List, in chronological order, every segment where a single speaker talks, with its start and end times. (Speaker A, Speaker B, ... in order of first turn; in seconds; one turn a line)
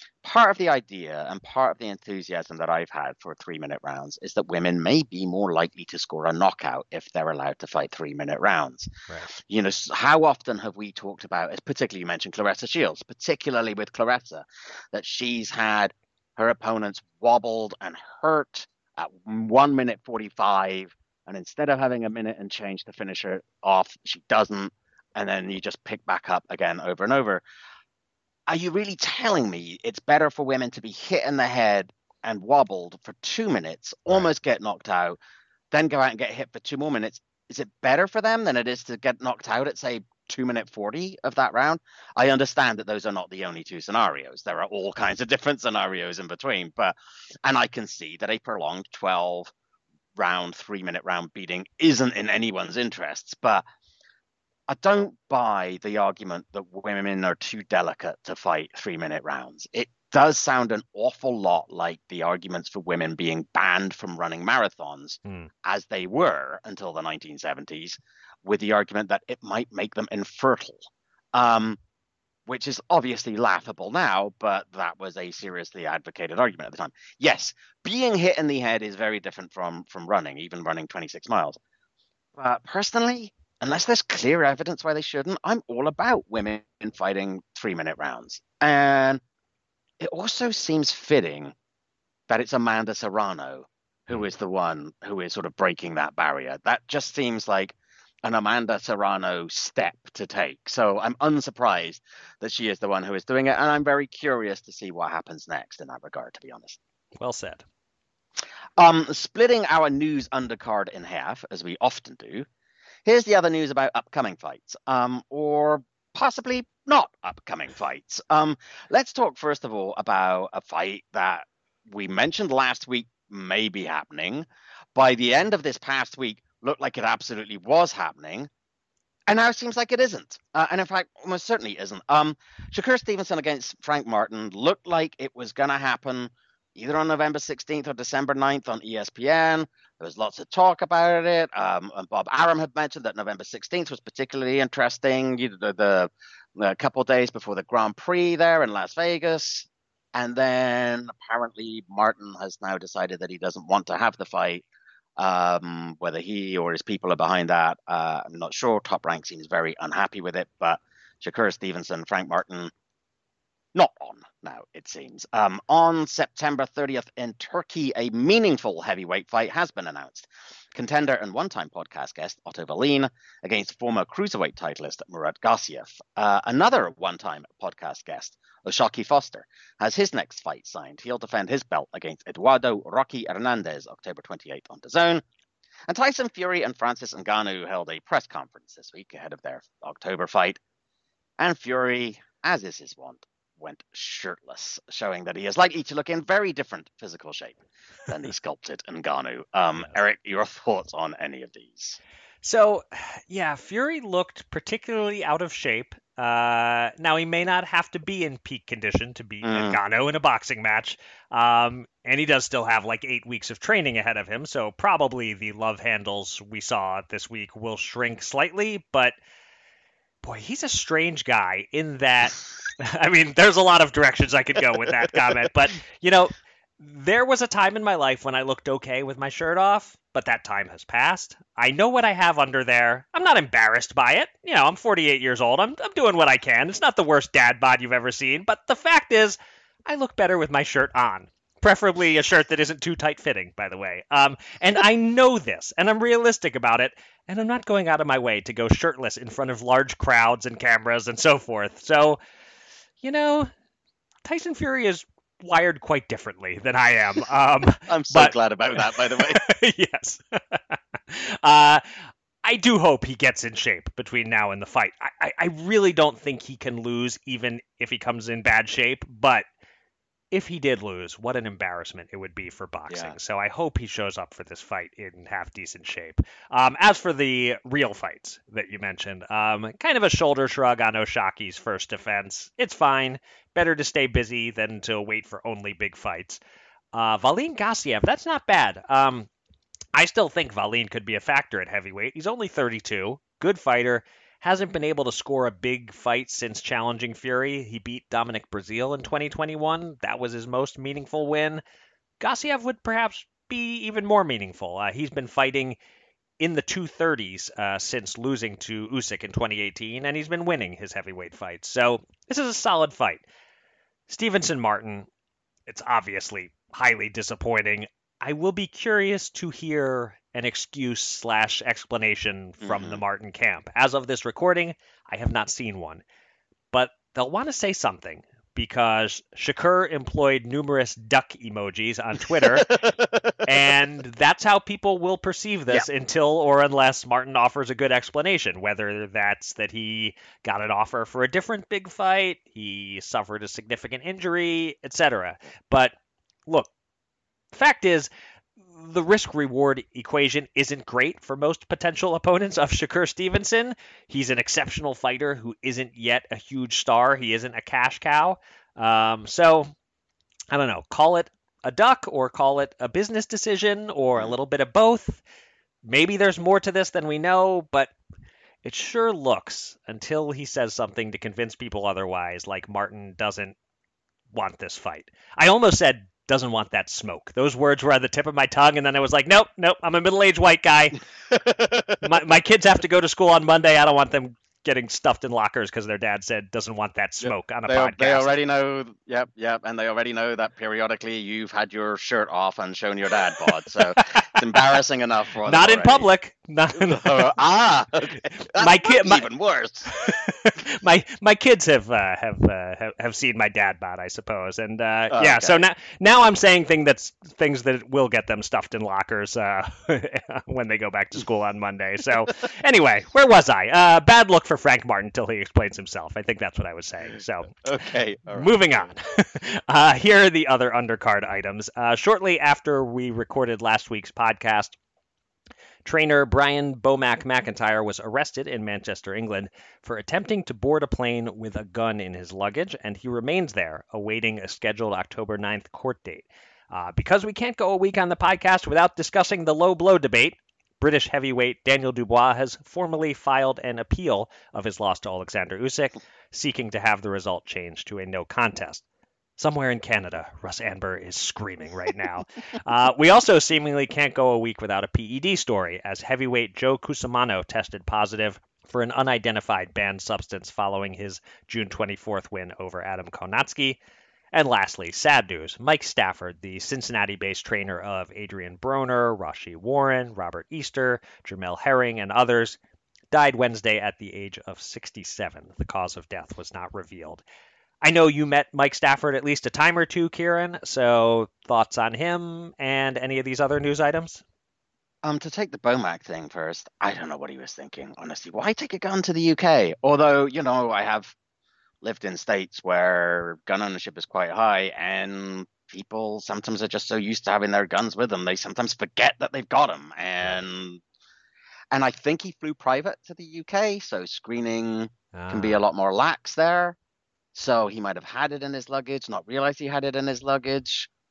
Speaker A: 0.2-27.4
Speaker A: 28.5-35.2
Speaker A: 35.7-49.5
Speaker A: 50.2-53.6
Speaker A: 54.7-71.8
Speaker A: 72.5-81.6
Speaker A: 82.4-89.2
Speaker A: 90.0-91.5
Speaker A: 92.3-106.8
Speaker B: 107.2-107.6
Speaker A: 108.8-112.5
Speaker A: 113.0-128.5
Speaker A: 129.3-154.7
Speaker A: 155.2-162.7
Speaker A: 163.7-185.2
Speaker A: 185.9-190.6
Speaker A: 191.4-202.0
Speaker B: 202.4-219.2
Speaker A: 209.4-209.8
Speaker B: 220.2-252.2
Speaker B: 253.0-253.5
Speaker B: 254.2-261.8
Speaker A: 257.9-259.4
Speaker B: 262.4-269.4
Speaker B: 270.3-286.4
Speaker A: 272.9-273.2
Speaker B: 286.9-289.3
Speaker B: 289.9-301.6
Speaker B: 302.2-305.8
Speaker B: 306.4-313.2
Speaker B: 314.1-315.1
Speaker B: 315.7-326.0
Speaker A: 322.6-323.0
Speaker B: 326.7-332.8
Speaker A: 332.7-333.2
Speaker B: 333.4-345.9
Speaker B: 347.5-348.1
Speaker B: 348.7-359.7
Speaker B: 360.5-365.2
Speaker B: 365.9-367.9
Speaker B: 368.6-373.6
Speaker B: 374.3-381.0
Speaker A: 381.3-381.9
Speaker B: 382.0-388.3
Speaker A: 387.2-396.1
Speaker B: 395.5-397.3
Speaker A: 396.8-400.0
Speaker B: 398.6-399.3
Speaker B: 399.9-417.6
Speaker A: 405.1-405.6
Speaker A: 417.6-418.5
Speaker B: 418.3-424.8
Speaker B: 425.9-448.8
Speaker B: 449.4-463.8
Speaker B: 464.3-472.6
Speaker B: 473.1-477.2
Speaker B: 477.8-484.2
Speaker A: 485.0-491.2
Speaker A: 491.8-500.8
Speaker A: 501.7-506.8
Speaker B: 505.1-505.6
Speaker A: 507.4-510.9